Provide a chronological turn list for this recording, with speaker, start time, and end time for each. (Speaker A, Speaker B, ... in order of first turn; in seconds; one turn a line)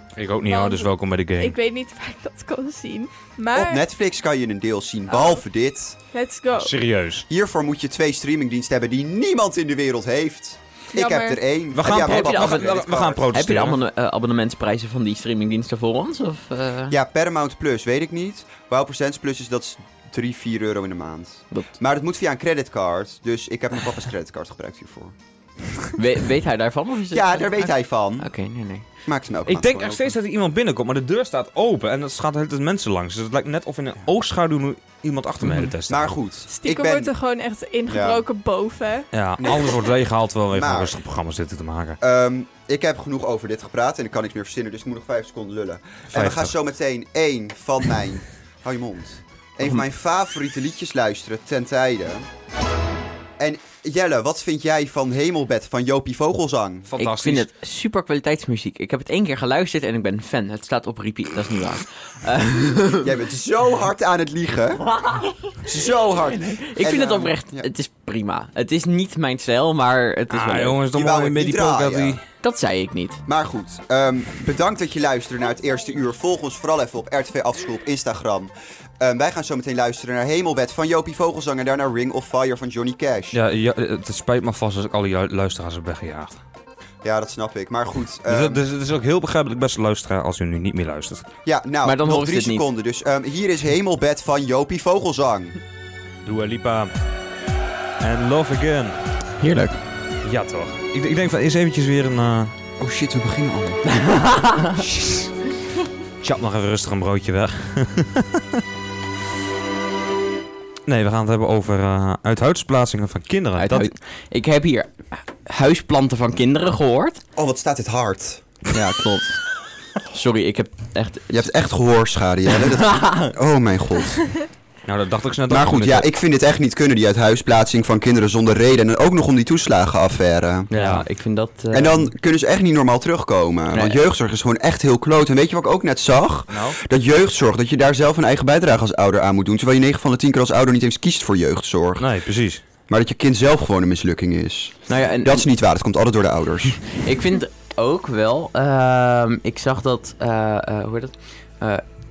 Speaker A: 0.1-1.5
Speaker B: 0.5-3.8
Speaker C: 3.5-6.0
Speaker B: 5.1-5.4
Speaker B: 6.1-6.7
Speaker A: 6.5-7.2
Speaker C: 7.3-13.2
Speaker B: 10.9-11.4
Speaker A: 11.7-13.8
Speaker D: 11.9-16.9
Speaker C: 16.9-25.1
Speaker D: 25.9-28.8
Speaker C: 27.1-28.3
Speaker C: 29.0-30.1
Speaker A: 29.4-36.2
Speaker D: 35.4-35.7
Speaker C: 35.9-37.1
Speaker B: 36.5-39.1
Speaker C: 37.9-38.2
Speaker A: 39.1-42.0
Speaker C: 39.4-39.8
Speaker C: 40.5-41.0
Speaker C: 42.0-52.3
Speaker A: 46.1-46.5
Speaker C: 53.4-56.9
Speaker A: 56.9-57.5
Speaker D: 57.0-63.1
Speaker C: 63.0-64.8
Speaker D: 65.0-65.5
Speaker C: 65.6-67.7
Speaker D: 66.3-70.8
Speaker A: 70.3-72.2
Speaker C: 70.9-72.2
Speaker D: 72.4-73.2
Speaker C: 73.3-83.4
Speaker A: 83.3-86.4
Speaker C: 87.0-88.6
Speaker A: 88.3-91.2
Speaker C: 91.4-95.5
Speaker D: 91.8-92.7
Speaker A: 96.2-96.9
Speaker A: 98.0-99.0
Speaker D: 99.4-99.8
Speaker A: 100.2-102.5
Speaker C: 102.8-103.8
Speaker D: 103.9-104.8
Speaker A: 104.8-105.3
Speaker A: 106.2-108.6
Speaker A: 110.8-113.9
Speaker D: 113.6-117.2
Speaker C: 117.3-118.4
Speaker D: 118.7-119.4
Speaker D: 120.1-121.5
Speaker C: 121.3-124.2
Speaker D: 122.5-123.3
Speaker A: 124.8-126.1
Speaker C: 125.5-130.7
Speaker D: 130.7-132.1
Speaker A: 130.7-131.0
Speaker C: 131.7-142.1
Speaker D: 133.7-134.0
Speaker A: 136.5-136.8
Speaker A: 142.0-142.6
Speaker C: 142.9-146.8
Speaker D: 144.9-145.5
Speaker D: 146.9-151.8